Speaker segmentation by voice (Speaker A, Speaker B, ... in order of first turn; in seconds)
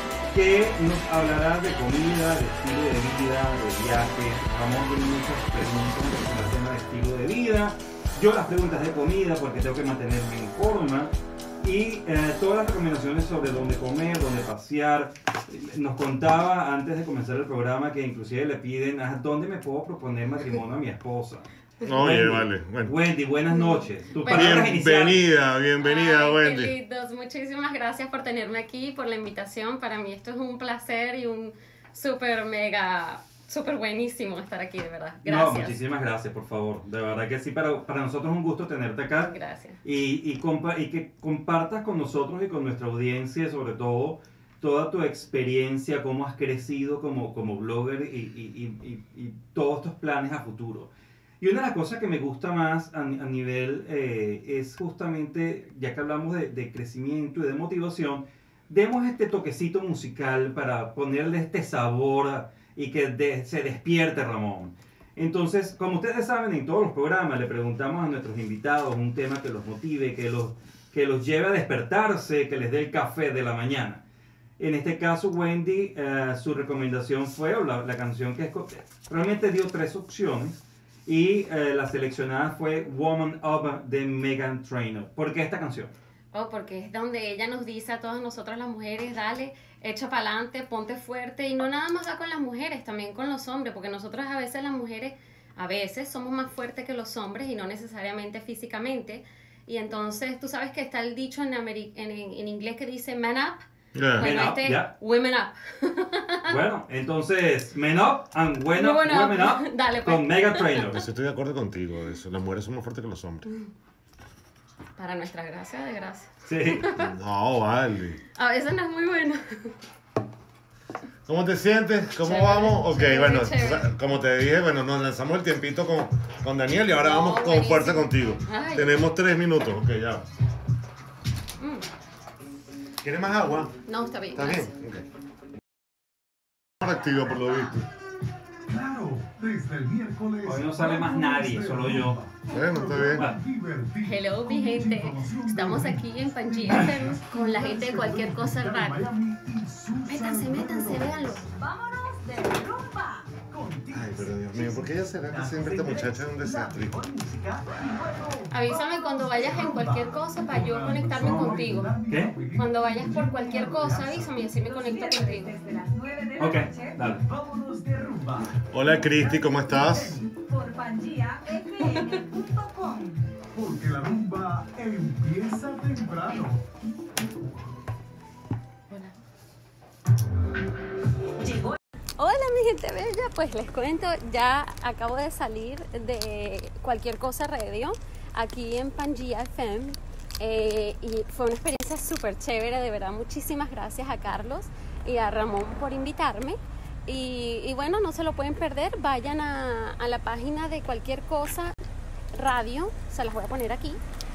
Speaker A: 0.3-25.2, 35.2-74.0, 74.6-85.9, 104.2-104.9, 106.5-111.0, 116.5-116.9, 140.4-142.3, 143.1-143.4, 161.2-162.4, 166.4-167.2
Speaker B: 21.8-23.0, 24.3-26.8, 104.0-104.3, 110.8-113.5, 117.0-118.2, 121.3-130.3, 133.0-133.7, 134.3-135.1, 136.8-137.8, 142.5-143.3, 153.9-157.0, 168.7-170.2
Speaker C: 23.5-24.5, 25.8-35.8, 39.3-39.8, 86.3-103.6, 104.2-106.5, 108.8-110.9, 115.0-117.1, 118.3-119.8, 122.2-123.9, 127.0-128.9, 131.6-131.9, 133.8-134.8, 144.0-149.0, 150.1-151.5, 158.5-161.9, 162.5-165.6, 182.2-201.8, 202.3-204.0
Speaker D: 138.7-151.5, 153.4-164.5, 167.2-170.4, 173.5-176.6
Speaker E: 151.5-153.4, 164.6-167.1, 170.4-173.3, 181.4-181.8